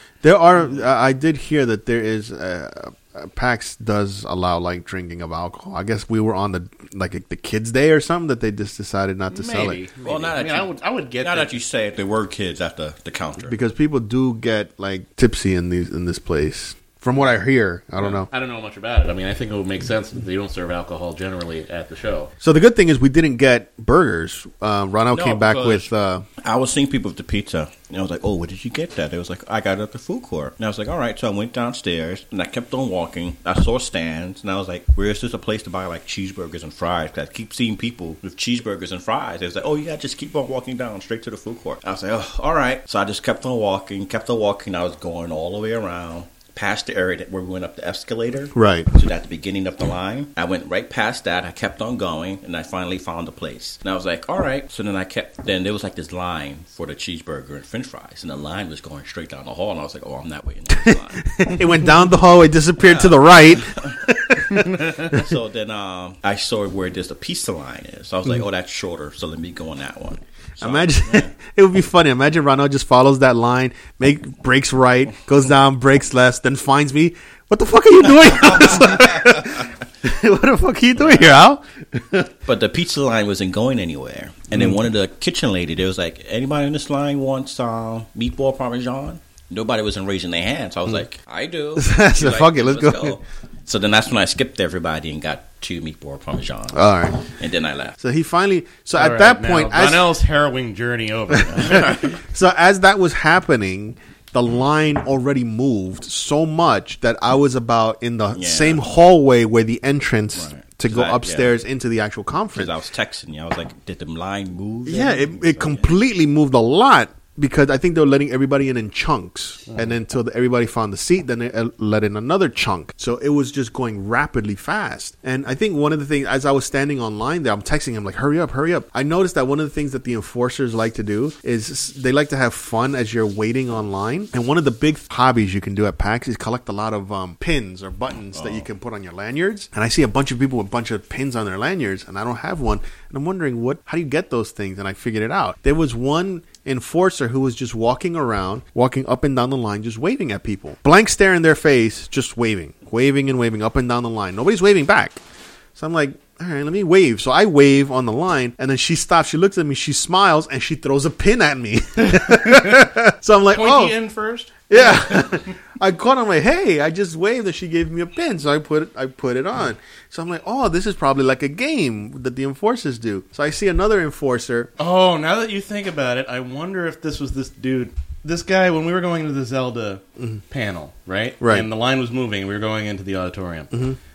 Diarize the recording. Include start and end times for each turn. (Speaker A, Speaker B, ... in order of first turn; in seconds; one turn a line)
Speaker A: 0.2-9.8
Speaker B: 9.3-11.6
Speaker C: 10.0-10.7
Speaker C: 11.2-13.6
Speaker A: 13.4-18.3
Speaker B: 18.0-22.3
Speaker A: 22.4-26.2
Speaker C: 25.1-25.9
Speaker C: 26.4-61.4
Speaker A: 48.5-48.9
Speaker A: 60.7-65.3
Speaker C: 62.8-71.3
Speaker A: 70.6-82.3
Speaker C: 78.7-79.4
Speaker C: 81.0-81.4
Speaker C: 82.5-98.0
Speaker A: 84.5-84.8
Speaker A: 91.8-93.2
Speaker A: 96.7-97.2
Speaker A: 98.0-100.1
Speaker B: 99.0-102.1
Speaker A: 101.3-112.7
Speaker C: 101.5-102.2
Speaker C: 108.3-108.8
Speaker C: 110.3-111.5
Speaker C: 112.5-115.9
Speaker A: 114.8-155.2
Speaker C: 138.3-138.6
Speaker A: 155.8-163.9
Speaker B: 162.2-162.9
Speaker B: 163.5-165.5
Speaker A: 164.7-174.7
Speaker B: 174.8-183.8
Speaker A: 181.4-181.7
Speaker A: 183.7-184.0